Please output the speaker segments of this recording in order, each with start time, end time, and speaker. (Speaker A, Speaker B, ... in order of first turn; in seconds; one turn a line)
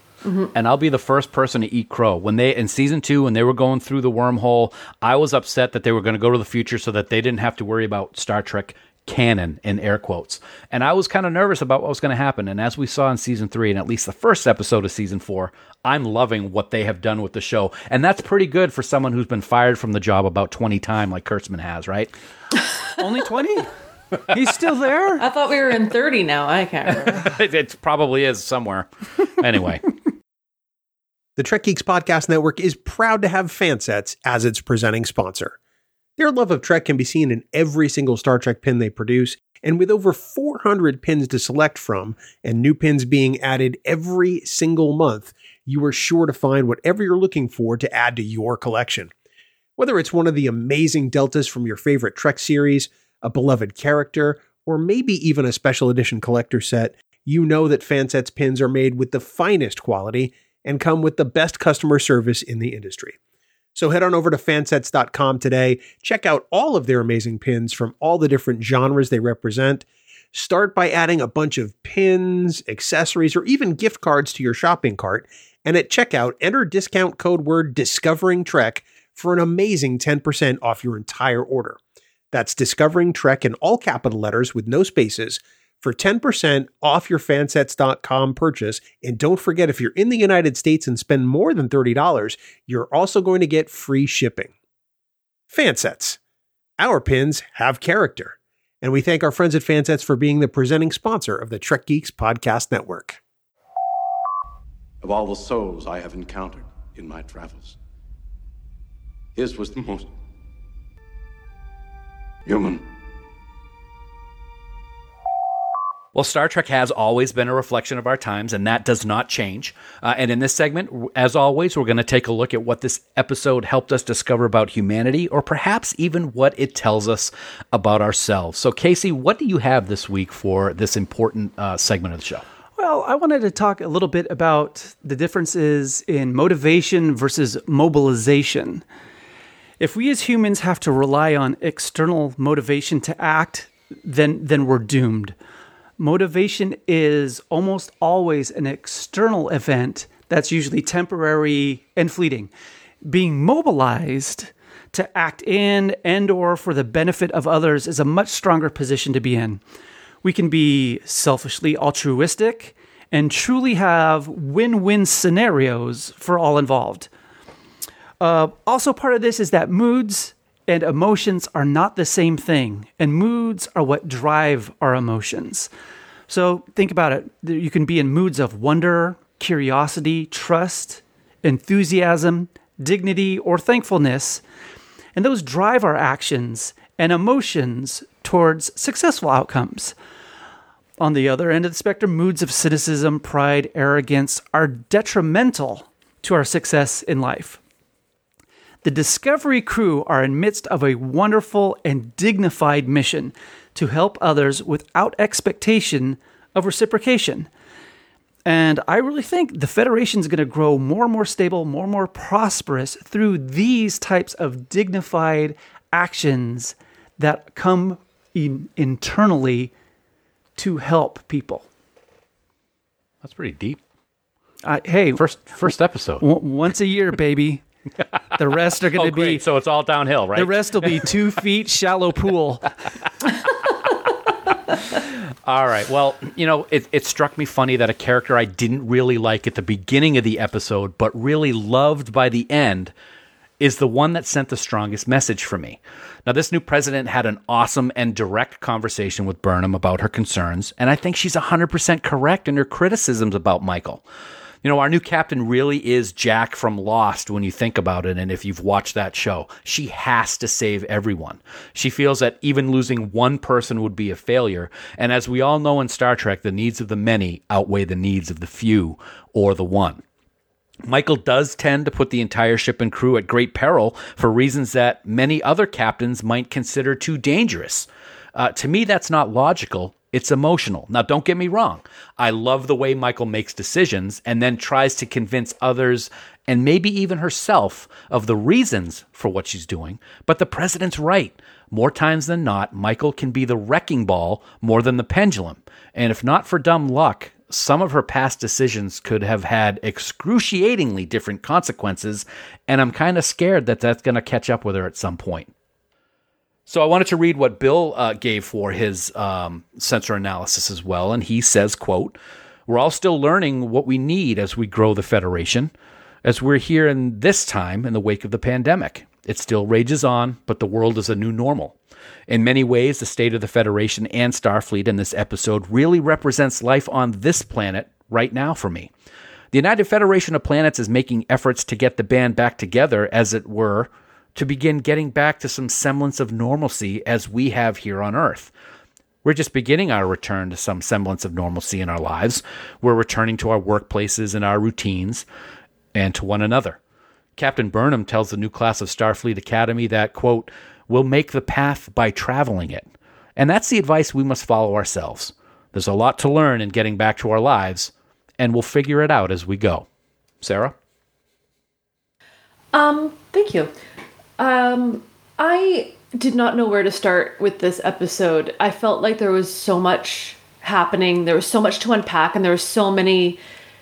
Speaker A: 0.2-0.5
Speaker B: 0.5-22.1
Speaker C: 23.0-23.7
Speaker C: 24.2-25.2
Speaker A: 25.2-27.3
Speaker B: 27.0-29.8
Speaker D: 31.4-35.5
Speaker D: 36.2-49.1
Speaker D: 49.8-63.2
Speaker D: 63.7-81.8
Speaker D: 82.3-94.5
Speaker D: 95.5-96.2
Speaker D: 96.8-103.2
Speaker E: 105.0-107.8
Speaker E: 109.3-110.1
Speaker E: 112.5-112.8
Speaker B: 116.1-132.4
Speaker C: 132.8-138.8
Speaker C: 139.8-145.3
Speaker C: 146.0-152.5
Speaker C: 153.0-159.6
Speaker C: 160.2-167.1
Speaker C: 168.2-175.7
Speaker C: 176.3-184.4
Speaker C: 185.2-189.9
Speaker C: 191.0-197.6
Speaker C: 198.8-207.5
Speaker C: 208.4-219.7
Speaker C: 220.6-221.6
Speaker B: 223.2-223.8
Speaker C: 224.6-227.6
Speaker B: 225.2-226.2
Speaker C: 228.3-229.4
Speaker B: 228.9-231.1
Speaker C: 230.3-232.7
Speaker B: 235.4-242.9
Speaker B: 243.6-254.0
Speaker B: 254.6-270.0
Speaker B: 270.9-305.5
Speaker B: 306.7-312.2
Speaker B: 312.7-315.7
Speaker B: 316.2-321.8
Speaker B: 322.3-328.9
Speaker B: 329.5-338.5
Speaker B: 339.2-345.2
Speaker B: 345.9-346.8
Speaker B: 347.4-359.9
Speaker B: 360.4-360.7
Speaker A: 362.7-363.7
Speaker A: 364.4-373.4